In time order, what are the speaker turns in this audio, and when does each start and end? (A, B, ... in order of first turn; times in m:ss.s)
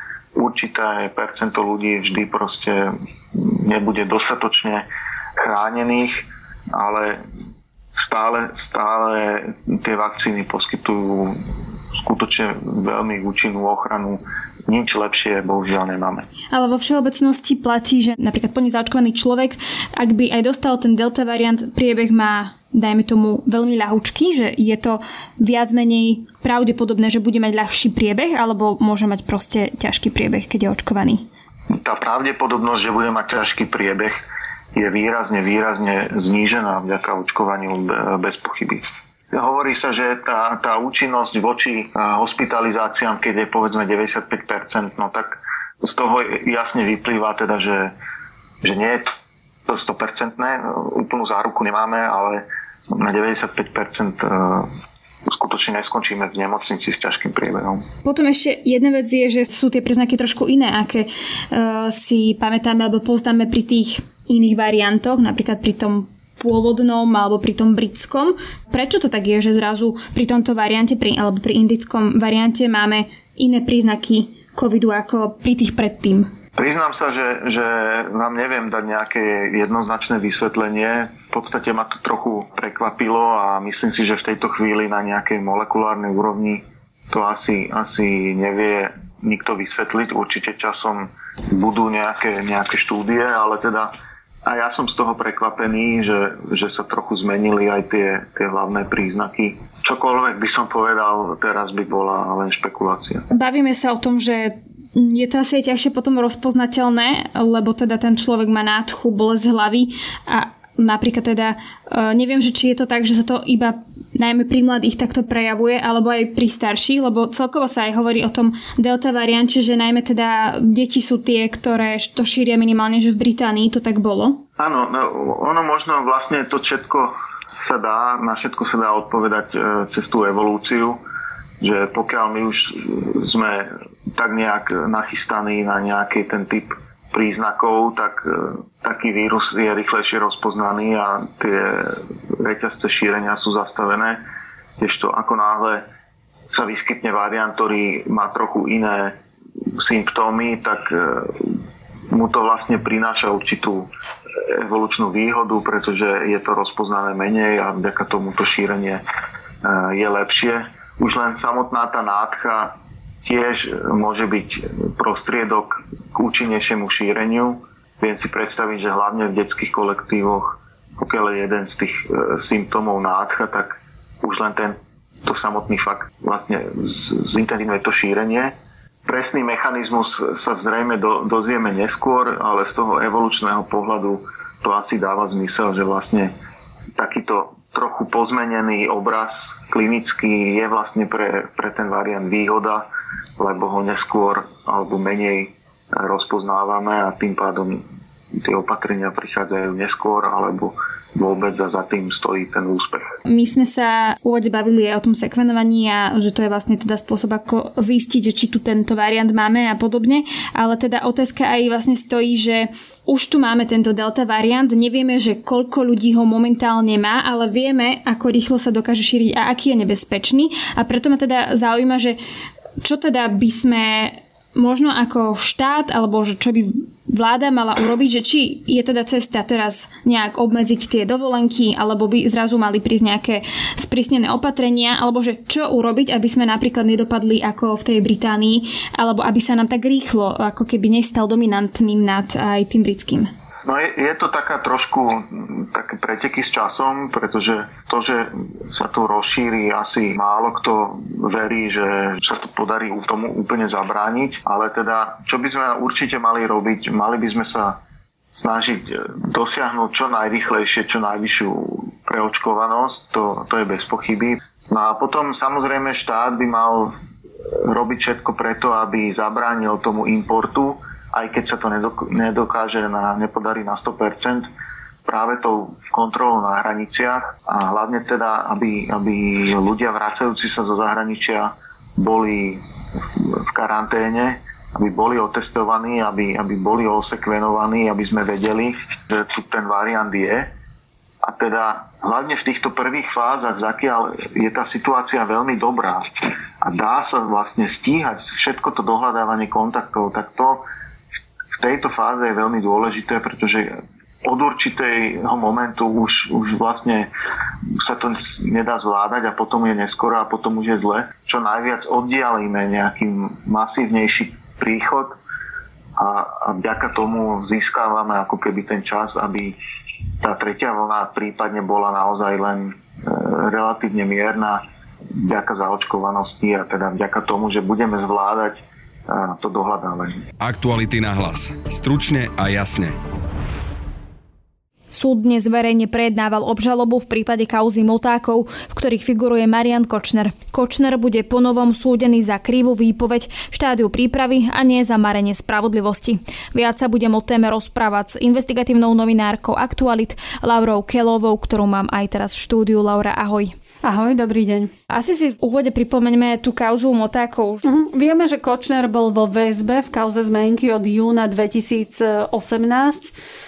0:00.4-0:04.8 A
0:05.4-0:07.2 A
0:08.0-0:11.4 A
0:12.0-0:16.3 A
0:16.5-0:31.2 B
0:31.7-0:34.2 A
0:34.7-0:47.9 A
0:48.6-0:49.1 A
0:49.7-0:54.7 A
0:55.3-0:57.8 A
0:58.0-1:16.3 B
1:16.6-1:33.9 A
1:34.5-1:43.3 A
1:43.3-2:04.4 B
2:04.6-2:11.0 A
2:11.6-2:24.2 A
2:24.8-2:25.8 A
2:26.5-2:29.2 A
2:29.8-2:31.6 A
2:32.1-2:33.9 A
2:34.5-2:39.0 A
2:39.6-2:58.5 A
2:59.0-3:06.3 A
3:07.0-3:12.8 A
3:13.4-3:17.8 A
3:18.4-3:23.1 A
3:23.3-3:42.2 B
3:42.8-4:03.3 B
4:03.6-4:17.8 A
4:18.3-4:26.9 A
4:27.6-4:34.5 A
4:35.1-4:50.5 A
4:51.2-4:56.1 A
4:56.6-5:00.6 A
5:01.5-5:07.1 A
5:07.8-5:15.1 A
5:16.0-5:19.6 A
5:20.2-5:24.6 A
5:25.2-5:30.2 A
5:30.4-5:33.0 C
5:34.9-5:53.5 B
5:53.8-5:54.7 D
5:54.9-5:57.6 B
5:57.6-6:03.1 D